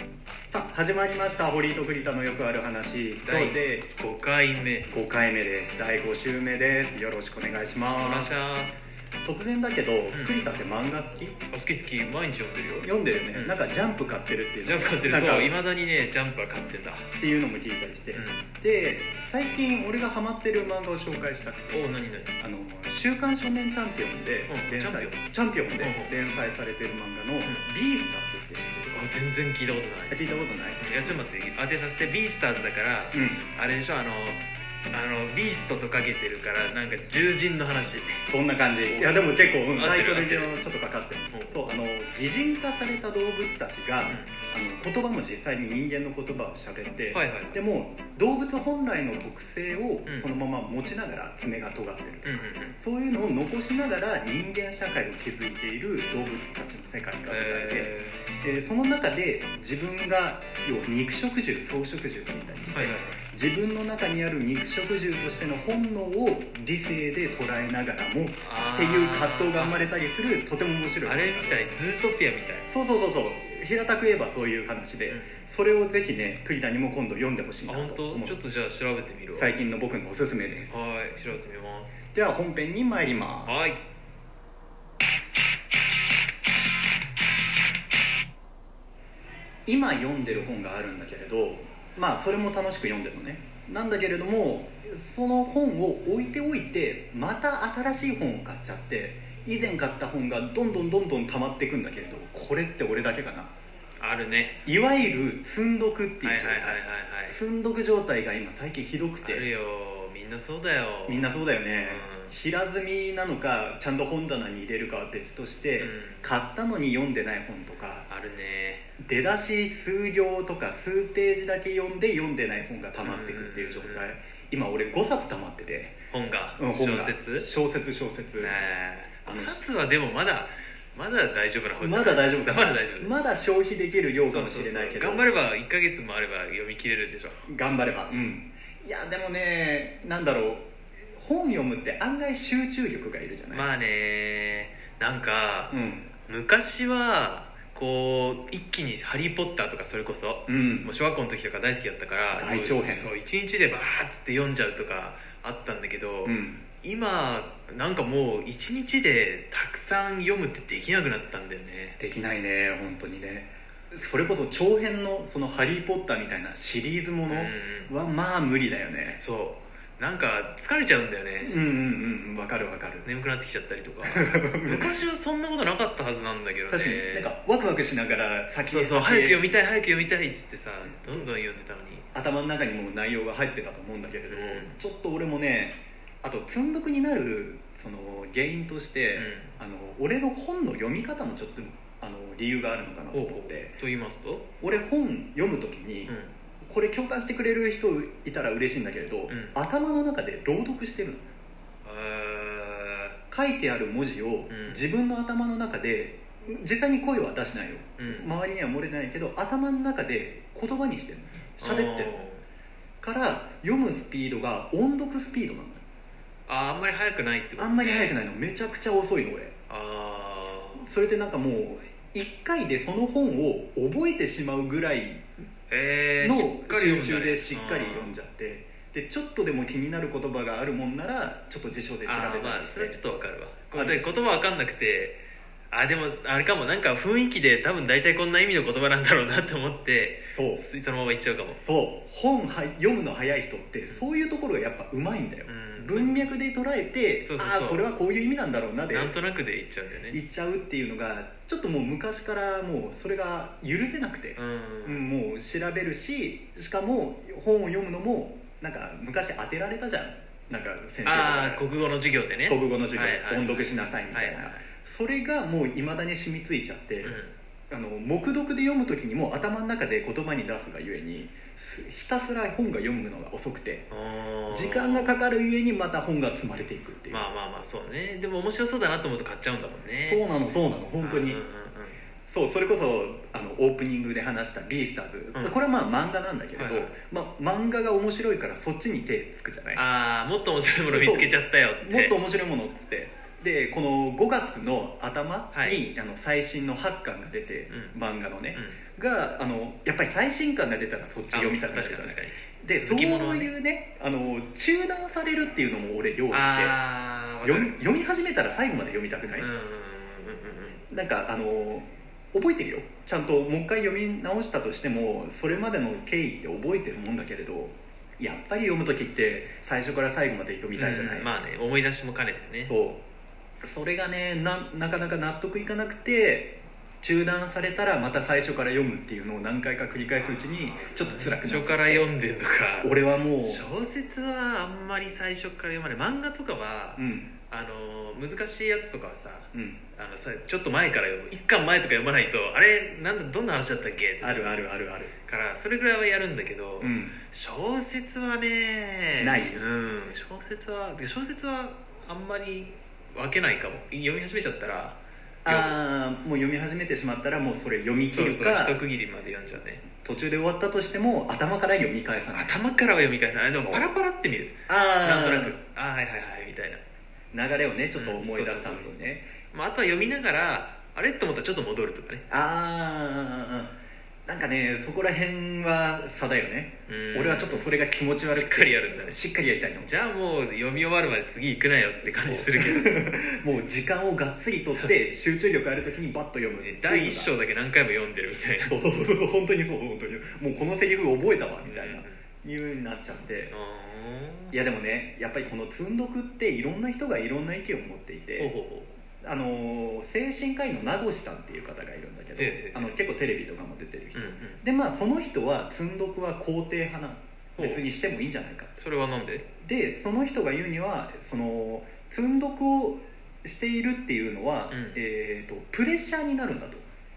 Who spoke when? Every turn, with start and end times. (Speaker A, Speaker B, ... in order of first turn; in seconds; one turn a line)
Speaker A: 0.5-3.9
Speaker B: 3.2-4.9
Speaker A: 4.9-8.3
Speaker B: 7.9-9.0
Speaker A: 9.2-11.4
Speaker B: 10.1-10.4
Speaker B: 11.5-13.7
Speaker A: 12.8-15.6
Speaker B: 14.6-17.1
Speaker A: 17.2-29.2
Speaker B: 18.1-18.4
Speaker B: 21.7-22.3
Speaker B: 24.5-25.2
Speaker B: 25.8-26.2
Speaker B: 28.9-38.2
Speaker A: 30.1-31.2
Speaker A: 33.1-33.5
Speaker A: 38.2-71.7
Speaker B: 38.9-40.6
Speaker B: 44.0-44.3
Speaker B: 47.1-47.6
Speaker B: 52.2-52.8
Speaker B: 57.3-58.2
Speaker B: 62.7-63.2
Speaker B: 68.4-69.9
Speaker B: 71.0-72.7
Speaker A: 72.7-78.4
Speaker B: 75.1-75.4
Speaker B: 77.7-79.5
Speaker A: 79.3-80.8
Speaker B: 80.7-82.0
Speaker A: 82.1-83.6
Speaker B: 83.5-83.8
Speaker A: 89.7-103.5
Speaker B: 104.0-104.6
Speaker A: 104.7-109.5
Speaker B: 106.2-107.4
Speaker B: 109.2-112.3
Speaker A: 111.1-118.1
Speaker B: 115.8-116.2
Speaker B: 118.1-118.9
Speaker A: 119.0-126.0
Speaker B: 123.0-124.1
Speaker B: 126.1-127.5
Speaker A: 126.6-128.6
Speaker B: 128.4-133.1
Speaker A: 129.3-129.7
Speaker A: 131.8-135.3
Speaker B: 134.3-137.4
Speaker A: 137.5-143.7
Speaker B: 143.5-162.0
Speaker A: 145.7-146.1
Speaker A: 150.5-150.9
Speaker A: 152.3-153.1
Speaker A: 156.2-156.6
Speaker A: 162.0-169.2
Speaker B: 167.3-167.9
Speaker B: 169.2-171.7
Speaker A: 171.4-173.1
Speaker B: 173.0-177.3
Speaker A: 174.0-174.9
Speaker A: 176.7-179.5
Speaker B: 178.6-182.1
Speaker A: 182.1-193.8
Speaker B: 184.3-184.8
Speaker B: 189.2-189.6
Speaker B: 193.1-194.5
Speaker A: 194.6-201.2
Speaker B: 196.1-196.3
Speaker B: 199.3-199.6
Speaker B: 201.8-203.2
Speaker A: 203.3-212.2
Speaker B: 204.5-204.9
Speaker B: 208.0-208.3
Speaker B: 211.6-212.4
Speaker A: 213.0-215.8
Speaker B: 216.5-218.2
Speaker A: 217.6-219.5
Speaker B: 219.7-220.9
Speaker A: 220.8-225.3
Speaker B: 225.7-228.2
Speaker A: 226.2-233.0
Speaker B: 232.1-241.6
Speaker A: 233.7-234.3
Speaker A: 240.3-240.6
Speaker A: 241.5-249.2
Speaker B: 245.5-246.3
Speaker B: 247.2-247.9
Speaker B: 248.9-250.2
Speaker A: 250.1-261.7
Speaker B: 254.4-255.1
Speaker B: 261.1-264.7
Speaker A: 262.5-273.9
Speaker B: 267.0-267.4
Speaker B: 273.9-275.3
Speaker A: 274.5-277.2
Speaker B: 277.1-280.2
Speaker A: 280.0-281.4
Speaker B: 281.0-282.0
Speaker A: 282.2-289.8
Speaker B: 286.6-287.0
Speaker B: 289.8-292.2
Speaker A: 290.9-306.8
Speaker B: 295.5-295.9
Speaker B: 297.7-298.0
Speaker B: 298.5-298.8
Speaker B: 301.3-303.5
Speaker B: 306.3-307.8
Speaker A: 307.4-309.5
Speaker B: 309.4-310.8
Speaker A: 310.9-321.3
Speaker B: 320.8-322.7
Speaker A: 322.6-323.0
Speaker A: 323.6-332.1
Speaker B: 330.1-344.6
Speaker A: 332.8-333.6
Speaker A: 337.0-337.3
Speaker A: 339.5-339.8
Speaker A: 344.2-345.1
Speaker B: 345.3-355.8
Speaker A: 346.8-347.2
Speaker A: 349.2-349.6
Speaker A: 355.4-358.8
Speaker B: 358.0-359.9
Speaker A: 360.0-362.5
Speaker B: 362.3-366.8
Speaker A: 363.5-363.9
Speaker A: 364.7-365.6
Speaker A: 367.3-369.3
Speaker B: 367.9-372.3
Speaker A: 372.3-373.8
Speaker A: 374.3-379.9
Speaker B: 376.9-379.2
Speaker B: 379.8-383.1
Speaker A: 382.0-387.3
Speaker B: 386.6-388.8
Speaker A: 388.6-393.5
Speaker B: 391.6-392.2
Speaker B: 393.5-394.6
Speaker A: 394.5-398.6
Speaker B: 398.4-398.9
Speaker A: 399.2-408.7
Speaker B: 402.4-403.0
Speaker B: 404.1-404.6
Speaker B: 407.6-407.9
Speaker B: 408.8-409.5
Speaker A: 409.6-416.9
Speaker B: 414.7-415.0